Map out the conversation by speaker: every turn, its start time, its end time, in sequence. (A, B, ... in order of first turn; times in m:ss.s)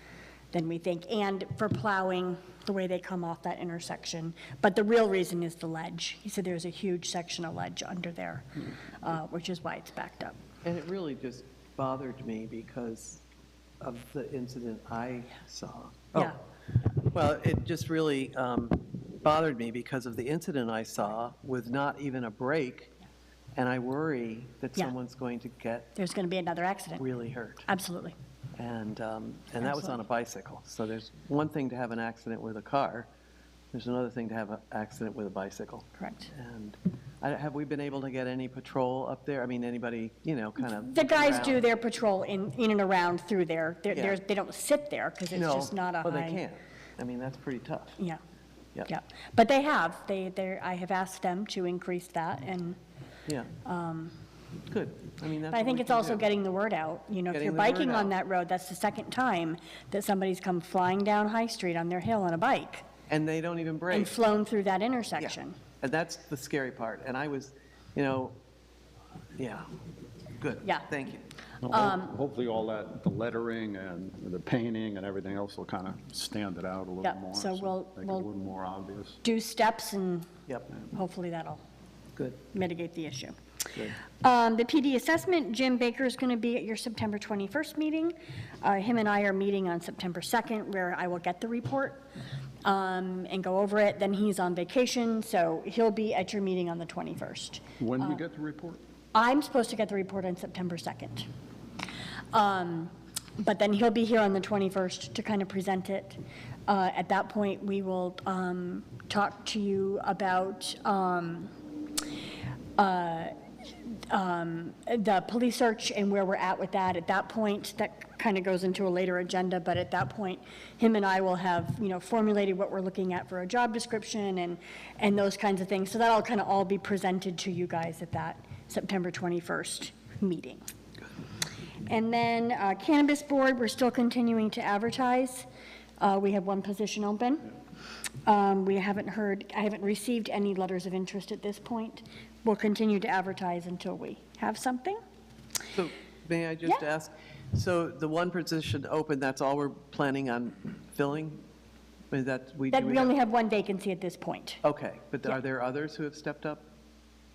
0:00.5-0:10.4 A
0:10.6-0:13.2 B
0:13.8-0:16.3 B
0:17.0-0:22.9 B
0:23.6-0:25.9 B
0:26.0-0:27.1 A
0:27.0-0:27.7 B
0:27.7-0:28.1 A
0:28.6-0:33.1 B
0:29.6-0:30.0 A
0:33.7-0:41.6 B
0:36.0-0:36.3 A
0:40.7-0:46.4 A
0:43.9-0:44.2 B
0:45.3-0:48.0 B
0:48.9-0:52.8 A
0:53.6-0:54.1 A
0:54.7-0:56.3 B
0:55.5-1:02.9 A
0:57.3-0:58.1 B
1:03.1-1:04.1 B
1:03.9-1:05.6 A
1:05.2-1:08.4 B
1:09.4-1:09.7 B
1:10.4-1:11.2 B
1:11.6-1:19.2 C
1:11.7-1:12.0 A
1:17.0-1:18.3 A
1:19.2-1:20.3 A
1:20.9-1:21.6 A
1:22.5-1:23.3 A
1:24.0-1:32.1 A
1:32.6-1:38.2 A
1:37.8-1:38.8 C
1:39.1-1:41.3 A
1:42.3-1:51.5 A
1:52.8-1:53.3 A
1:54.1-2:10.6 A
2:11.9-2:15.5 A
2:16.0-2:17.5 A
2:18.2-2:25.0 A
2:25.7-2:31.4 B
2:32.1-2:33.1 B
2:32.7-2:34.6 A
2:34.6-2:36.6 B